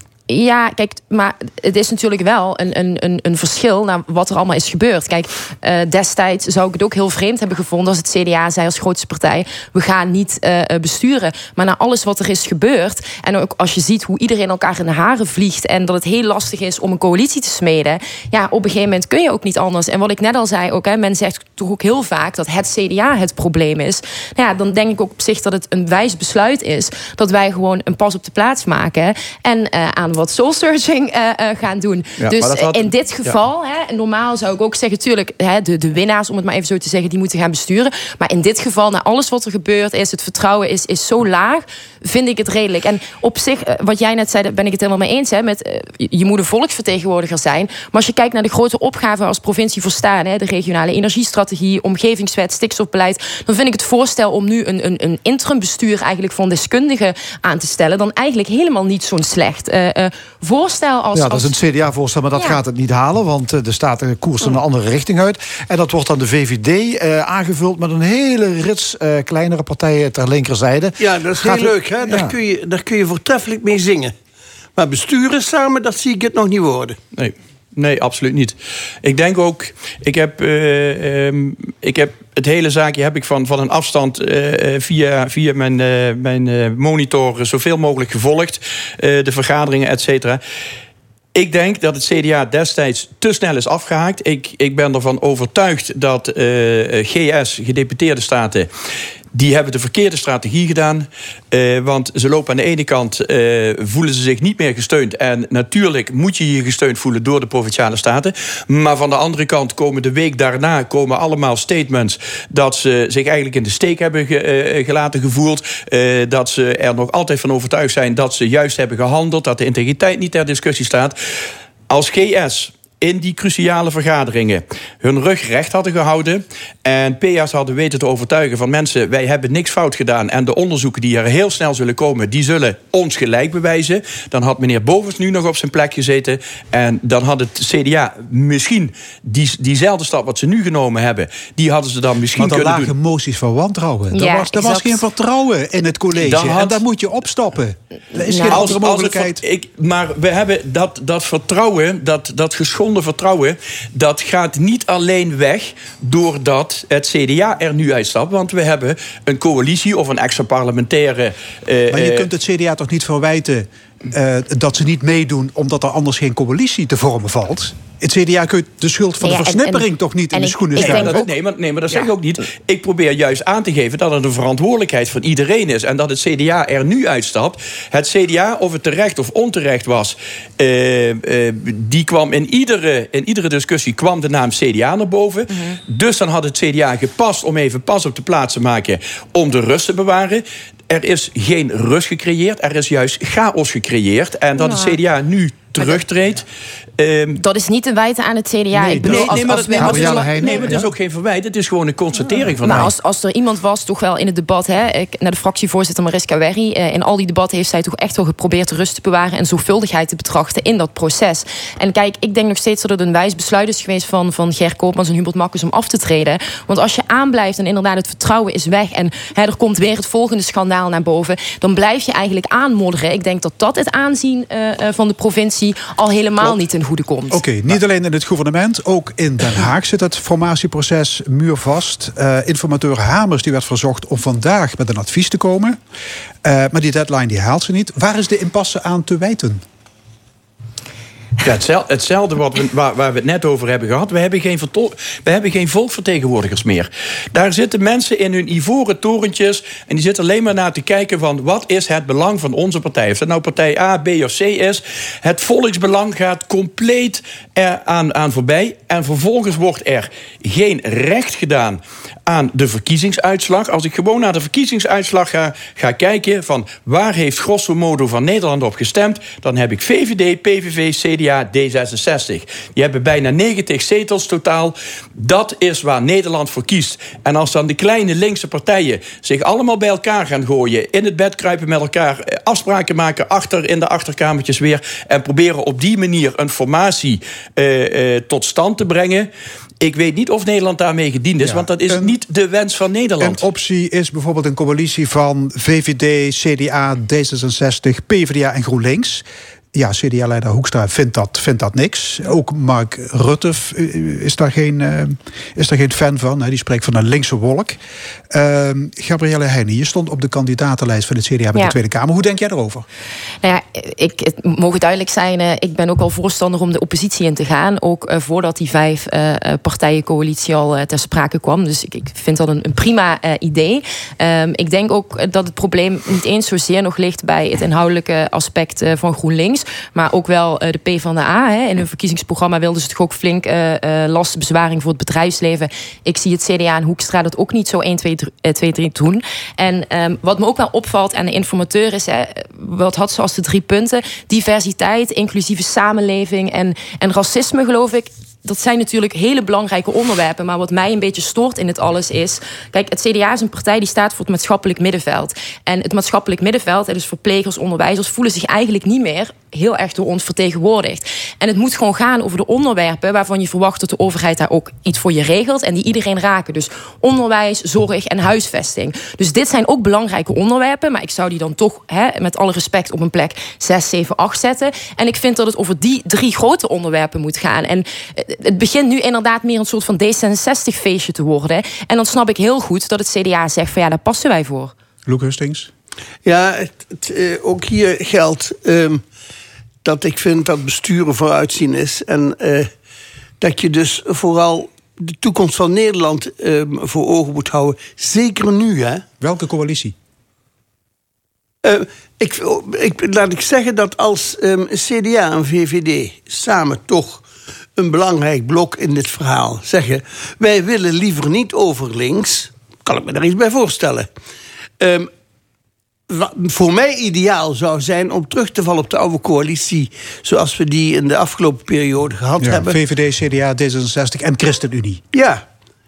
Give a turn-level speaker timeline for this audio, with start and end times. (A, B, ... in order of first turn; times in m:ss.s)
0:00.3-1:01.5 A
0:32.2-0:33.3 B
1:01.1-1:12.3 C
1:02.3-1:02.6 A
1:11.0-1:14.1 D
1:14.8-1:17.0 D
1:17.1-1:30.4 B
1:31.3-1:38.7 B
1:39.3-2:01.2 B
2:01.9-2:22.9 B
2:22.4-2:29.4 E
2:24.1-2:25.0 A
2:26.1-2:26.8 B
2:28.1-2:28.8 A
2:28.5-2:42.3 B
2:41.9-2:51.3 E
2:49.2-2:51.3 A
2:50.8-3:16.4 B
3:05.5-3:05.8 A
3:14.6-3:15.0 A
3:15.8-3:16.0 A
3:17.0-3:17.4 B
3:17.4-3:20.8 A
3:18.7-3:20.7 C
3:19.0-3:22.9 B
3:22.5-3:47.5 A
3:47.3-3:55.8 E
3:56.4-3:59.6 E
4:01.4-4:49.3 B
4:49.8-4:53.4 B
4:51.4-4:52.2 E
4:53.2-5:07.8 E
5:08.3-5:12.8 E
5:13.4-6:24.7 A
6:25.0-6:25.7 E
6:26.2-6:29.0 D
6:29.8-6:32.7 D
6:33.4-6:39.0 D
6:39.2-6:39.9 E
6:41.6-6:47.2 D
6:47.8-6:54.1 D
6:54.8-6:55.1 D
6:56.1-7:02.8 D
7:02.4-7:05.0 E
7:05.1-7:05.4 D